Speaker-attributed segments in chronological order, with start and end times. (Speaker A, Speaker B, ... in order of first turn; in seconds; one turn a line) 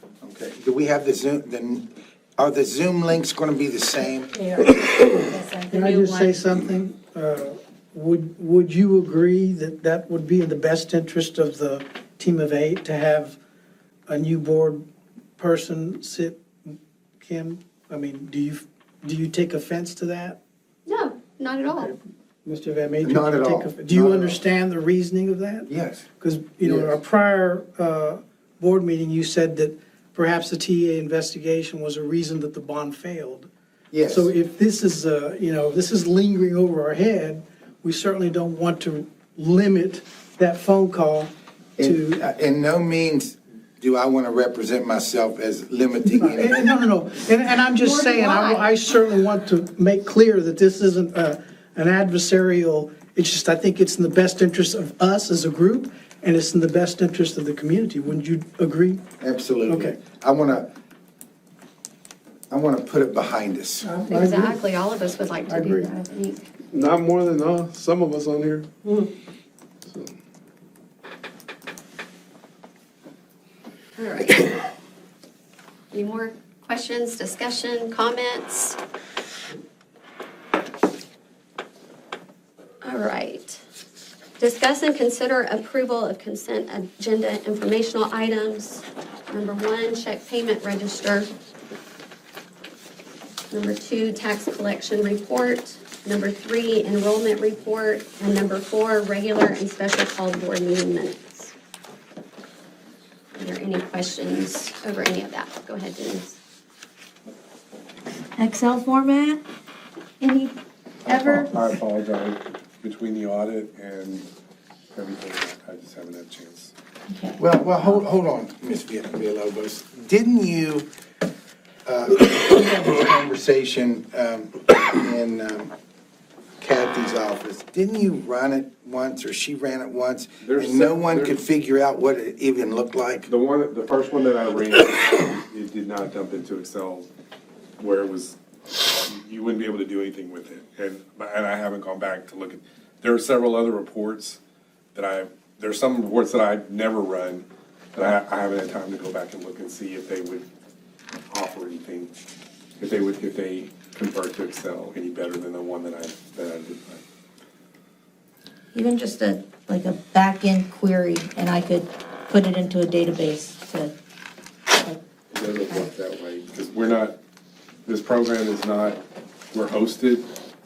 Speaker A: 0.2-4.3
Speaker B: 4.3-6.1
Speaker C: 5.7-13.4
Speaker C: 14.1-14.8
Speaker C: 15.4-20.4
Speaker D: 20.9-21.9
Speaker C: 22.4-33.5
Speaker A: 23.0-24.4
Speaker A: 25.7-26.1
Speaker A: 26.6-27.0
Speaker A: 33.9-34.3
Speaker C: 34.0-42.2
Speaker A: 41.8-46.6
Speaker C: 46.1-59.0
Speaker D: 47.8-48.6
Speaker A: 59.2-60.7
Speaker C: 59.6-60.0
Speaker A: 62.5-63.9
Speaker C: 63.8-64.6
Speaker D: 64.1-66.4
Speaker C: 65.5-65.9
Speaker E: 66.7-68.7
Speaker E: 69.8-70.1
Speaker D: 74.0-74.7
Speaker D: 75.9-78.8
Speaker D: 82.8-83.6
Speaker D: 84.4-91.3
Speaker D: 93.5-101.5
Speaker D: 103.4-106.4
Speaker B: 108.4-109.4
Speaker B: 110.2-110.5
Speaker F: 111.0-114.3
Speaker B: 111.1-111.5
Speaker F: 114.9-116.7
Speaker B: 117.1-117.4
Speaker A: 117.4-120.9
Speaker A: 121.8-125.7
Speaker A: 126.6-133.3
Speaker F: 130.4-131.3
Speaker F: 133.3-137.1
Speaker F: 137.8-144.4
Speaker F: 144.9-150.4
Speaker F: 151.3-152.1
Speaker F: 152.8-157.0
Speaker B: 158.7-163.9
Speaker B: 164.7-165.0
Speaker F: 165.3-167.2
Speaker F: 167.8-169.0
Speaker F: 169.5-170.3